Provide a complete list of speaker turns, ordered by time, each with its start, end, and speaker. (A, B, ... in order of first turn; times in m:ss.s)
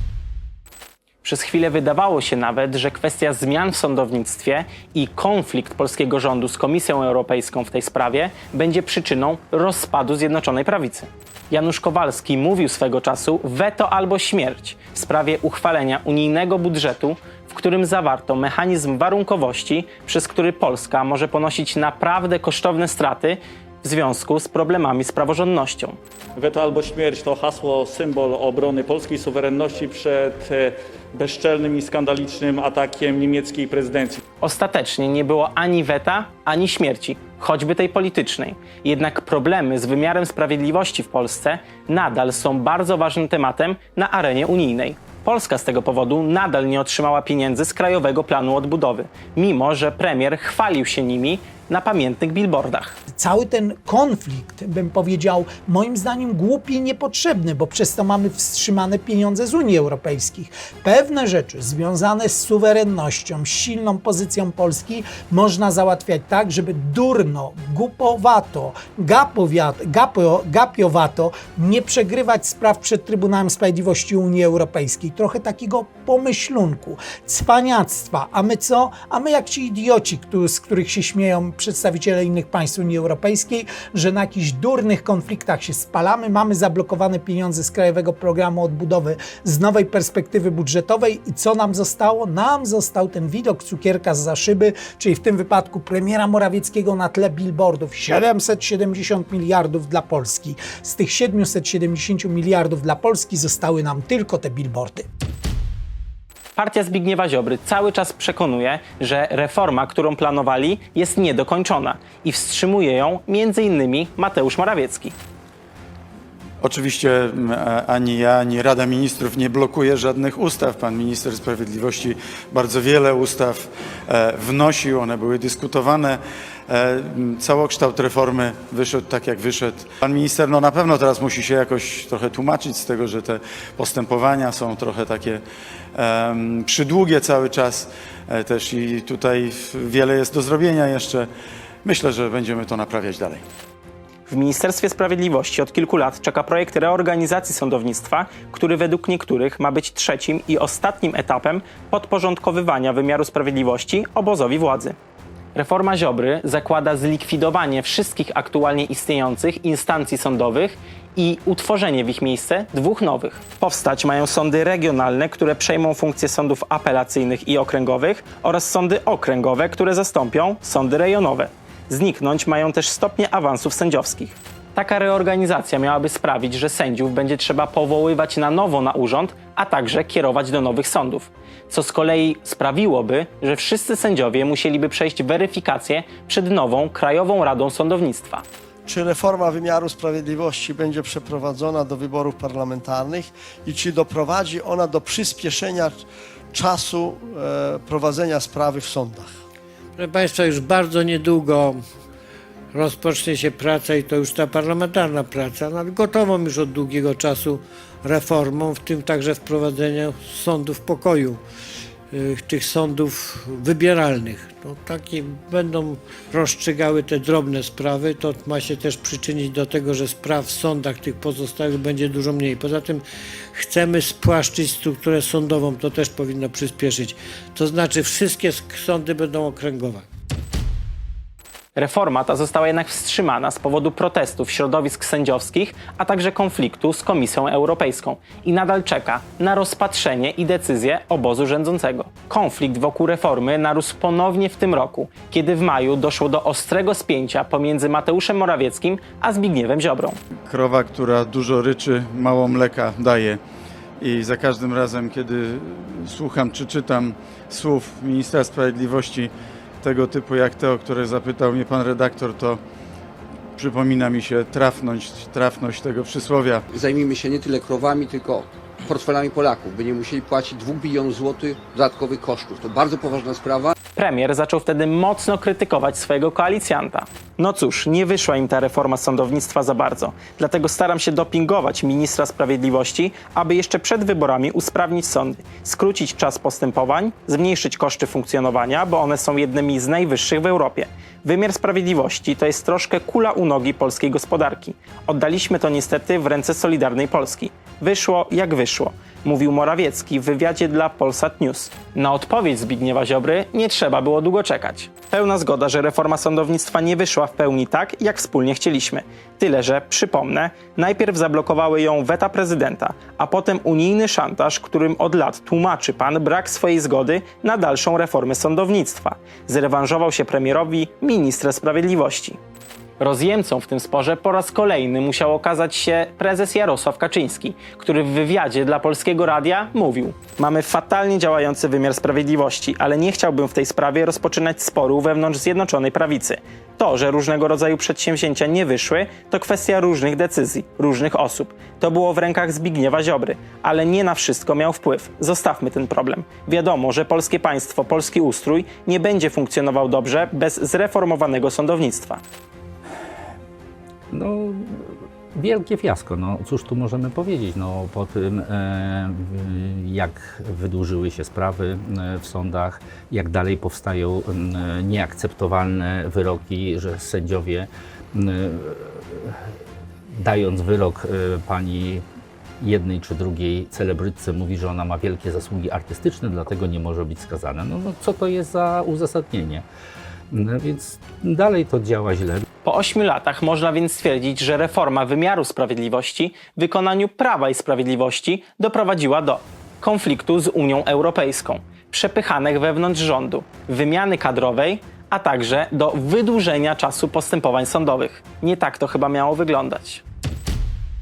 0:01.2-0:26.0 A
0:26.4-0:34.2 B
0:34.4-0:53.0 A
0:53.2-1:45.1 C
1:46.6-1:55.1 A
1:56.6-2:15.4 D
2:16.0-2:21.3 D
2:21.8-2:23.4 D
2:24.3-2:35.0 A
2:35.6-3:08.4 A
3:08.9-3:16.0 E
3:16.5-3:19.3 E
3:20.0-3:21.8 F
3:22.7-3:31.4 F
3:32.1-3:43.0 F
3:43.5-3:50.0 F
3:51.8-4:10.2 A
4:10.5-4:13.4 D
4:14.0-4:22.6 D
4:23.6-4:26.7 D
4:26.7-4:33.7 G
4:34.0-5:22.4 A
5:23.0-5:52.2 A
5:54.1-6:09.6 H
6:10.1-6:12.1 H
6:12.6-6:19.7 H
6:20.3-6:22.4 H
6:22.6-6:40.0 A